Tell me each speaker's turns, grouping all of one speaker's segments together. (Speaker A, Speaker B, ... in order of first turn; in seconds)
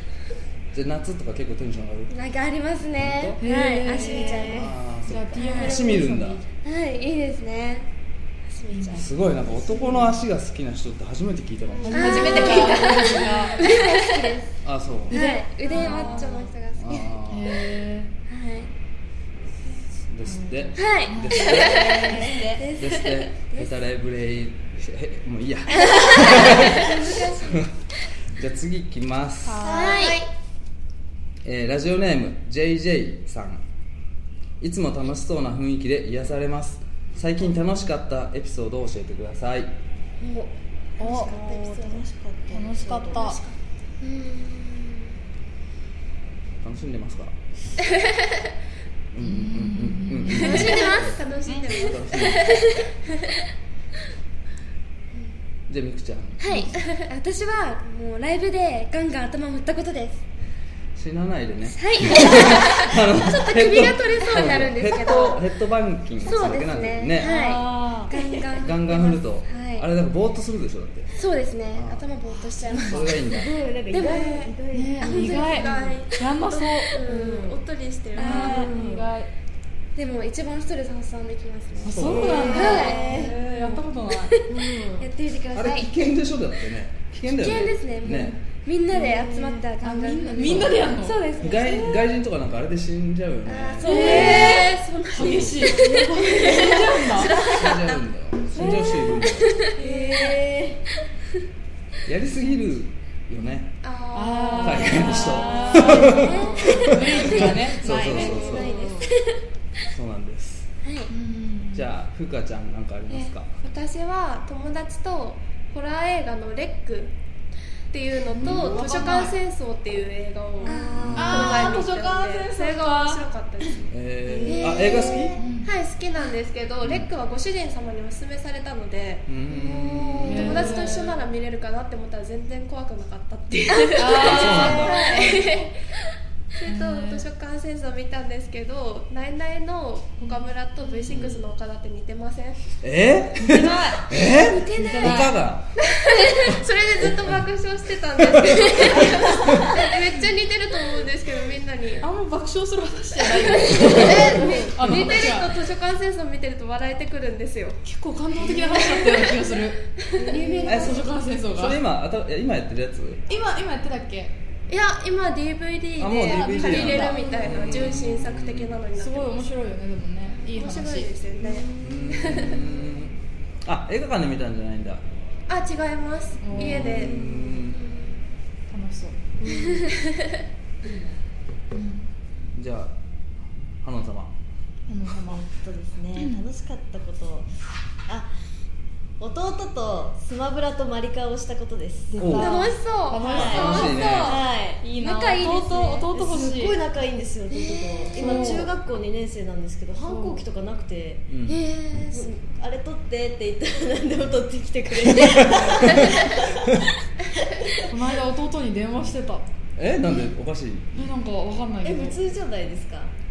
Speaker A: 0.7-2.1, 3.0-3.4, 4.5-6.4, 8.9-12.6, 14.6-15.3, 16.8-17.6, 20.1-22.2, 22.7-27.7, 28.3-29.7, 31.4-33.6, 34.6-39.7, 46.6-47.4, 49.1-51.1, 51.7-52.6, 55.7-56.7, 61.0-67.3, 68.6-71.1, 71.7-72.0, 72.8-73.5, 81.8-82.5, 85.5-88.4, 90.4-90.8, 91.4-94.5, 95.1-95.7, 97.5-99.5, 102.0-103.7, 104.6-108.8, 109.9-110.7, 111.7-113.5, 118.4-118.8, 121.0-121.5, 123.9-125.4, 126.8-127.1, 129.3-130.6, 134.2-135.1, 141.1-141.4, 142.8-145.8, 146.5-147.4, 148.2-149.8, 153.7-154.2, 154.8-155.1, 160.7-163.2, 166.0-168.8, 171.8-175.0, 176.6-177.8, 182.6-182.9, 183.8-184.3, 192.2-192.6, 193.3-194.4, 201.3-201.6, 205.1-206.7, 209.8-211.1
Speaker B: 2.1-4.7, 5.4-5.9, 6.5-7.9, 8.5-9.1, 11.9-14.5, 15.1-17.1, 18.3-18.7, 20.8-21.6, 22.2-23.7, 25.8-27.6, 29.7-30.2, 40.2-40.5, 41.0-42.0, 44.0-45.1, 50.5-51.1, 52.4-52.9, 56.4-60.2, 61.7-65.4, 66.2-69.9, 71.1-73.3, 73.9-75.7, 78.2-78.7, 80.0-83.5, 84.3-86.2, 87.3-92.1, 93.8-94.4, 99.1-100.2, 106.1-107.5, 108.3-109.4, 110.8-111.1, 120.6-121.3, 134.9-135.2, 195.0-196.1, 197.5-198.5, 201.5-202.3
Speaker C: 3.4-4.5, 5.1-6.5, 8.7-10.2, 11.8-14.0, 15.1-16.5, 17.3-18.1, 20.3-22.7, 29.4-30.0, 41.0-41.4, 42.5-43.4, 49.2-50.8, 67.2-68.1, 72.7-73.0, 74.7-77.0, 78.2-79.3, 81.8-84.4, 89.8-91.2, 93.8-97.4, 104.1-108.7, 111.1-111.9, 118.4-119.4, 121.2-123.2, 125.4-125.7, 130.2-131.2, 134.0-135.7, 136.7-137.3, 140.2-140.5, 143.4-145.4, 152.0-155.6, 157.8-159.8, 160.7-161.8, 163.3-164.3, 166.3-167.3, 169.0-171.1, 176.4-177.1, 178.7-179.2, 181.7-182.1, 184.9-185.5, 186.2-186.4, 192.1-196.8, 198.2-198.7, 200.0-200.4, 207.9-209.5, 210.9-212.2
Speaker D: 3.9-4.7, 22.1-22.4, 29.6-30.2, 41.1-43.3, 68.1-68.4, 73.2-76.0, 77.0-77.6, 78.2-79.1, 82.0-83.4, 84.5-85.1, 88.9-89.7, 93.8-94.8, 95.7-97.6, 98.5-99.2, 99.8-100.8, 105.1-107.0, 108.1-109.1, 118.4-119.1, 120.6-121.8, 124.2-125.4, 129.5-130.8, 134.2-135.1, 148.9-149.7, 153.9-154.7, 158.4-158.8, 160.2-160.9, 171.4-172.7, 177.1-177.6, 179.4-179.9, 185.3-187.5, 189.2-192.3, 193.2-194.8, 196.1-201.3, 202.1-206.8, 207.5-207.8, 211.8-213.1
Speaker E: 11.8-13.9, 15.8-16.2, 26.4-27.0, 29.8-30.3, 43.1-43.6, 50.3-53.2, 74.0-74.5, 75.0-78.7, 93.8-98.0, 99.8-100.4, 103.8-105.7, 108.1-108.9, 113.1-117.1, 117.9-123.9, 124.4-129.3, 130.2-135.7, 136.6-142.6, 144.5-145.1, 145.9-152.0, 153.7-157.8, 158.4-159.4, 160.0-160.9, 164.7-169.5, 170.5-172.7, 175.5-178.1, 192.4-194.0